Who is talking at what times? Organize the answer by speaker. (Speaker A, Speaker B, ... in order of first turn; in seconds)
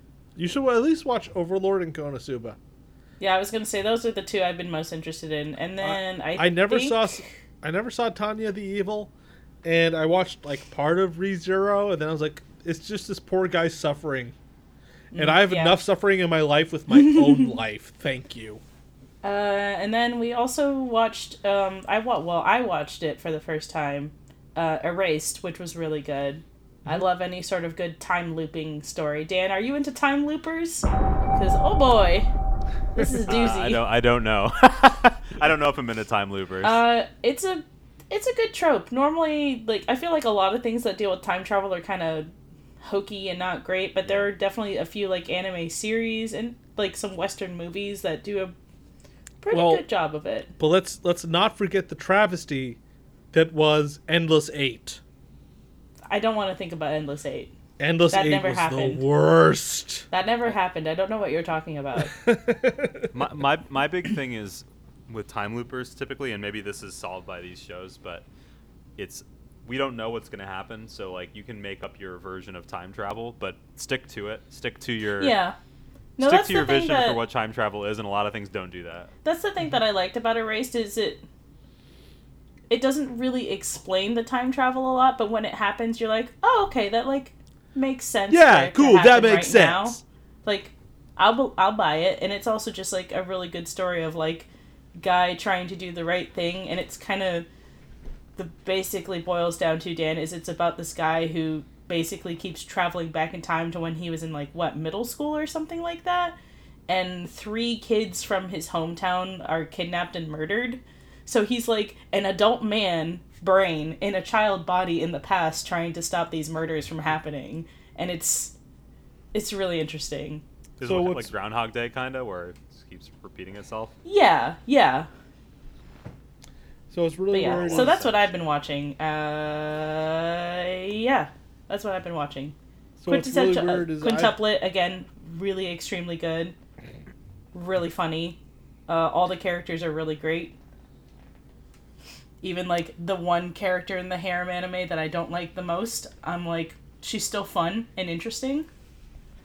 Speaker A: 0.3-2.6, 5.8-9.1, 9.6-14.3, 15.1-18.6, 33.0-33.2, 49.5-49.8, 50.6-52.8, 53.3-55.0, 57.8-60.1, 62.1-63.1, 88.3-90.0, 120.8-121.3, 126.9-128.0, 133.0-134.4
Speaker B: 3.2-7.3, 15.1-15.8, 16.9-17.5, 19.2-32.3, 32.9-33.8, 36.6-48.5, 49.4-50.5, 56.1-57.5, 58.1-59.0, 60.1-62.1, 75.2-75.5, 76.2-77.2, 79.2-81.2, 82.7-97.5, 98.3-106.3, 106.9-118.5, 119.3-120.4, 124.0-125.1, 127.3-132.5, 133.1-136.6, 137.5-140.6, 142.4-148.7
Speaker C: 33.3-36.8, 63.1-68.2, 69.0-75.3, 76.2-79.1, 120.8-123.9, 127.5-128.3